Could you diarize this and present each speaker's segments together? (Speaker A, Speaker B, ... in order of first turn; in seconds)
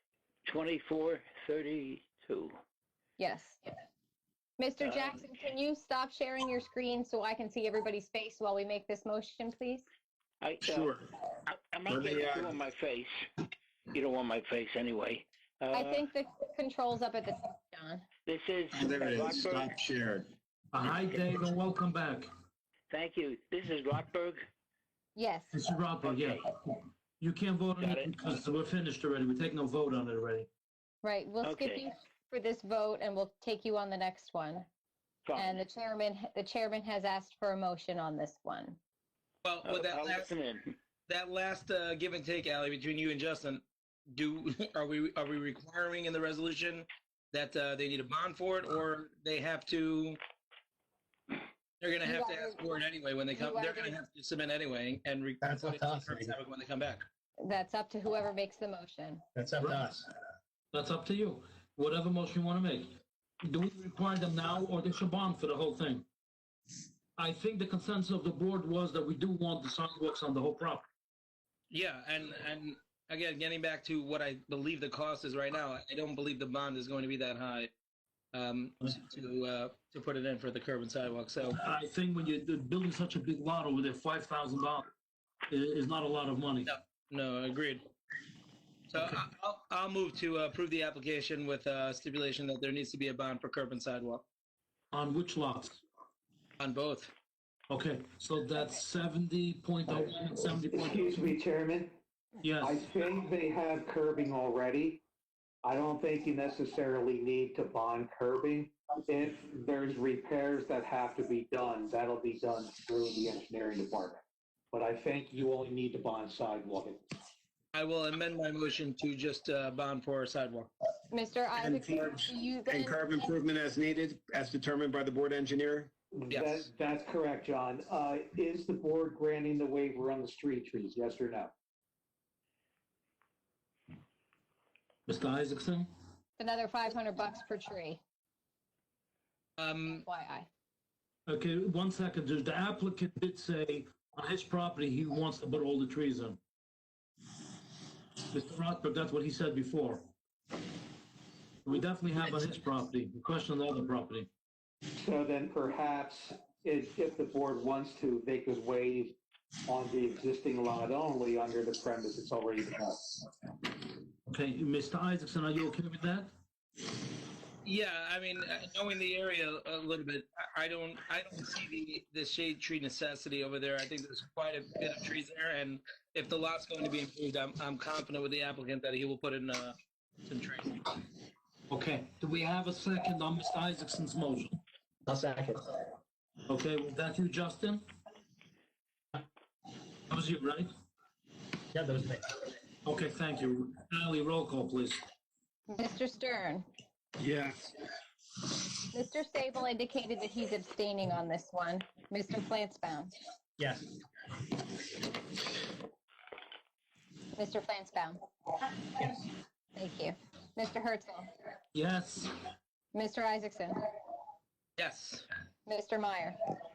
Speaker A: 0.5-2.5, 4.8-5.1, 10.4-10.9, 11.5-13.1, 13.9-16.1, 18.3-19.7, 22.9-24.4, 26.0-26.4, 27.8-28.1, 31.4-31.8, 35.2-35.6, 39.6-40.7
Speaker B: 3.2-3.7, 4.6-9.9, 15.7-18.0, 25.2-25.5, 31.0-34.7, 35.4-38.8, 52.0-52.5, 53.4-54.0, 57.4-59.2, 121.1-123.3, 136.4-138.0, 139.8-140.5, 195.7-196.7, 198.9-203.1, 207.4-208.2, 209.8-211.3, 212.9-213.8, 215.7-216.4
Speaker C: 10.6-11.0, 11.9-12.6, 18.7-20.3, 121.5-125.9
Speaker D: 20.7-22.3, 25.5-30.5, 59.6-59.9, 60.7-62.9, 63.4-66.0, 67.2-70.8, 81.4-84.9, 85.5-86.7, 94.9-95.8, 97.7-101.4, 102.4-102.8, 135.1-135.9, 141.3-146.4, 148.3-150.1, 151.7-154.3, 164.3-166.3, 181.7-184.6, 186.5-187.8, 190.1-190.7, 192.8-195.0, 211.8-212.3
Speaker E: 39.4-40.3, 41.1-50.2, 51.8-57.0, 71.7-77.7, 78.3-81.5, 86.7-87.9, 88.9-94.2, 96.6-97.1, 117.7-120.7, 126.3-126.7, 139.6-140.0, 167.6-179.8, 180.3-180.9, 214.8-215.3
Speaker F: 55.4-56.3, 59.3-60.1, 185.1-185.7, 191.7-192.3, 197.2-197.7, 203.6-203.9
Speaker G: 100.7-102.0, 102.6-105.0, 105.6-117.0, 126.1-131.5, 155.0-159.2, 159.7-163.3